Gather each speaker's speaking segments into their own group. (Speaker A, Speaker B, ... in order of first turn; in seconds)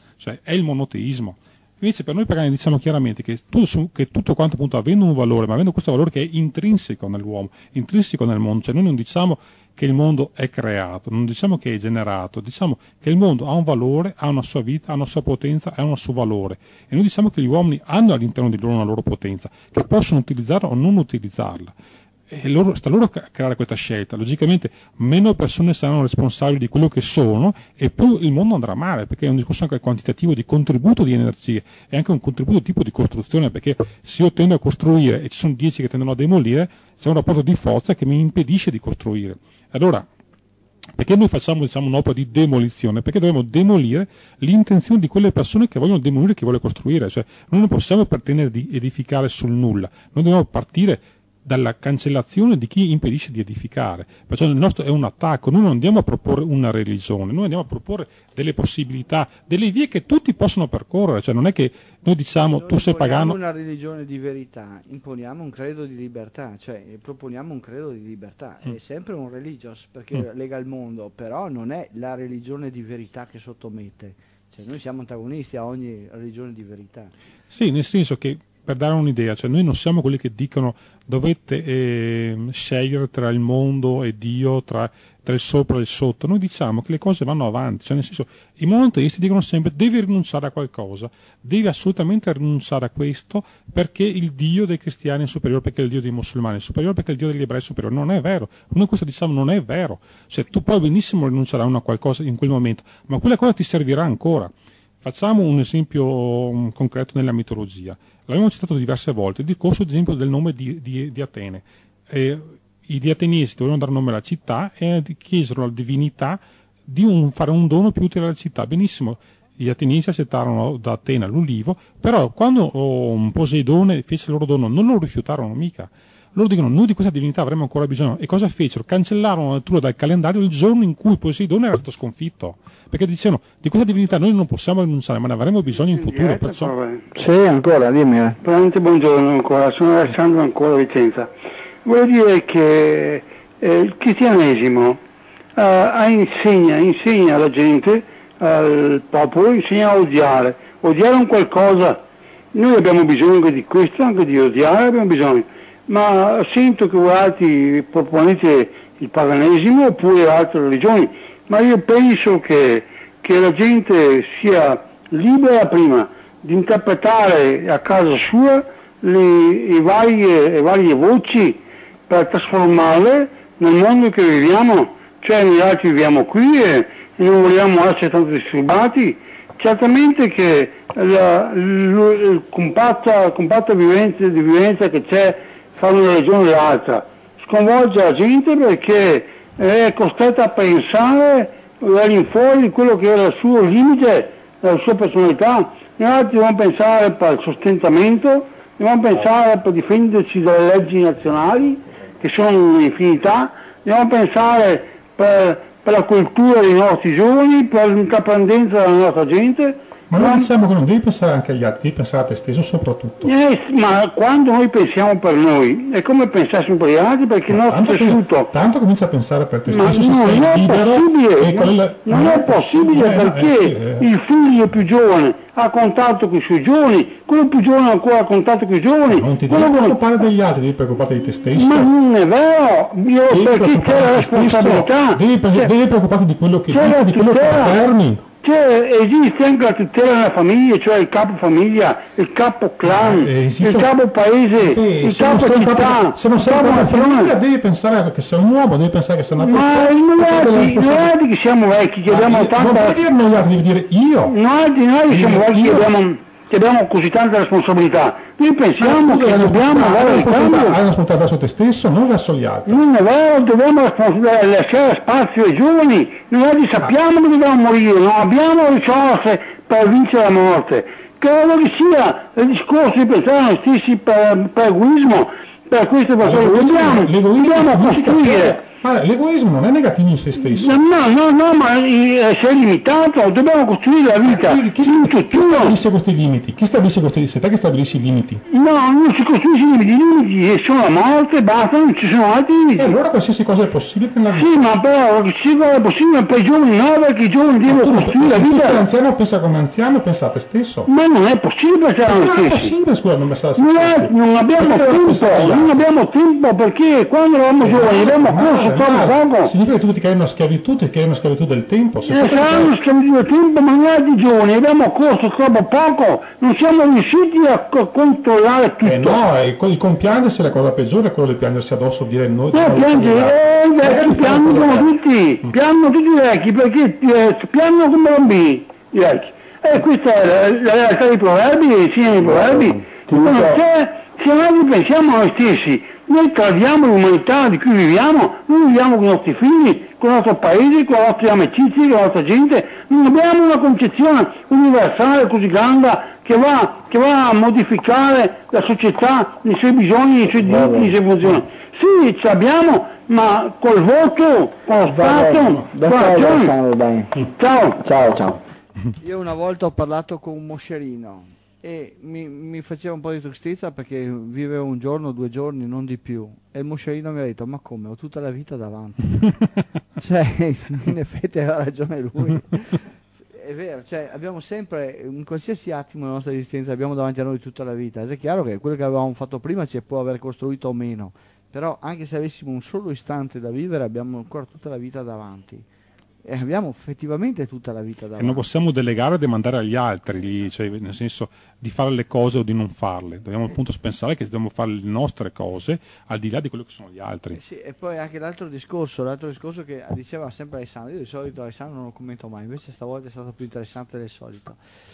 Speaker A: 0.2-21.7, 22.3-40.1, 41.0-63.4, 77.5-136.8, 210.1-213.3, 217.5-224.1, 229.1-231.9, 233.3-238.2, 242.8-243.9, 244.6-251.1, 252.1-254.4, 255.1-255.9, 258.8-262.8, 276.2-280.8, 284.2-288.4, 292.8-294.5, 297.6-300.9, 302.1-305.8, 307.6-312.7, 318.8-324.9, 388.2-397.4
Speaker B: 62.5-77.1, 359.0-369.2, 369.9-385.6, 386.2-388.4, 397.3-404.6
Speaker C: 135.9-137.0, 138.4-141.3, 141.8-145.0, 145.6-152.0, 152.5-210.5, 213.2-218.5, 219.7-230.0, 231.6-235.7, 236.7-237.8, 238.4-247.3, 249.3-253.0, 254.3-260.8, 262.7-278.6, 280.4-285.8, 288.5-293.0, 294.3-298.9, 300.9-302.7, 303.6-309.5, 312.0-319.2, 322.5-356.5, 357.4-357.8
Speaker D: 137.1-138.4, 332.2-333.6, 350.4-351.0, 354.9-357.1, 357.8-358.4